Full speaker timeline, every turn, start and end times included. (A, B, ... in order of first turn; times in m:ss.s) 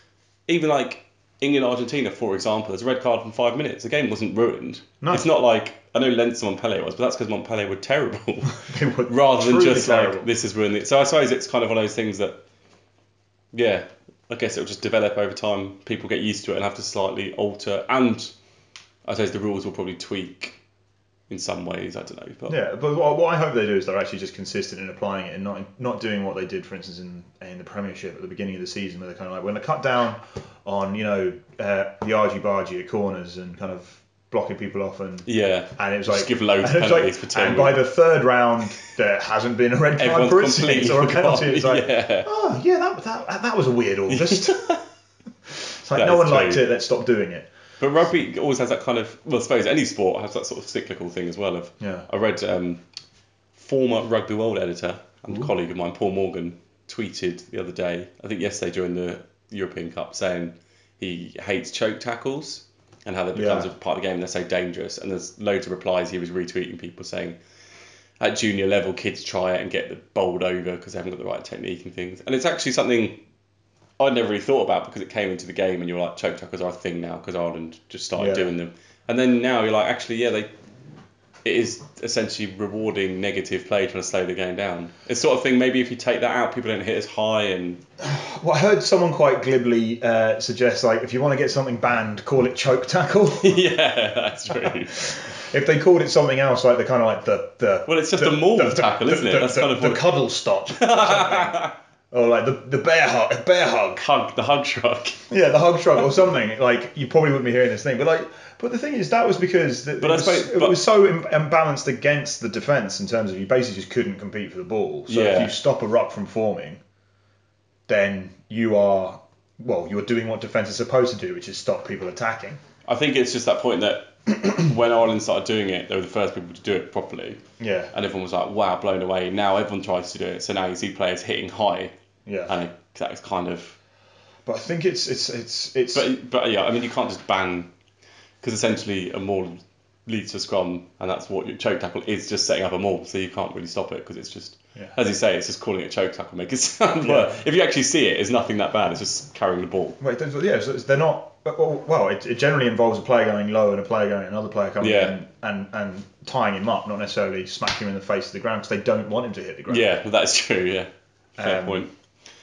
0:00.5-0:12.4 A
0:08.5-0:10.3 B
0:13.5-0:18.3 A
0:19.0-0:20.6 A
0:21.3-0:22.6 A
0:22.5-0:44.8 B
0:35.2-0:37.8 A
0:40.0-0:42.3 A
0:44.1-0:44.8 A
0:45.8-0:47.5 B
0:46.0-0:46.6 A
0:47.8-0:52.8 A
0:51.8-0:52.1 B
0:53.5-1:07.4 A
1:03.3-1:03.7 B
1:08.2-1:13.2 A
1:14.0-1:20.5 A
1:18.2-1:18.5 B
1:21.4-1:27.8 A
1:28.0-1:33.6 B
1:33.4-1:35.1 A
1:34.5-1:44.0 B
1:37.9-1:40.1 A
1:40.7-1:41.7 A
1:44.0-1:45.2 A
1:45.3-1:56.8 B
1:50.0-1:50.8 A
1:55.1-1:55.5 A
1:57.9-2:02.6 B
2:02.8-2:07.4 A
2:07.6-2:07.9 B
2:07.9-2:11.9 A
2:12.2-2:12.5 B
2:12.5-2:13.8 A
2:14.4-2:16.1 B
2:15.9-2:17.7 A
2:18.4-2:30.0 A
2:27.0-2:27.3 B
2:30.0-2:39.9 B
2:34.8-2:35.1 A
2:39.7-2:40.9 A
2:41.4-2:41.8 B
2:41.4-2:41.9 A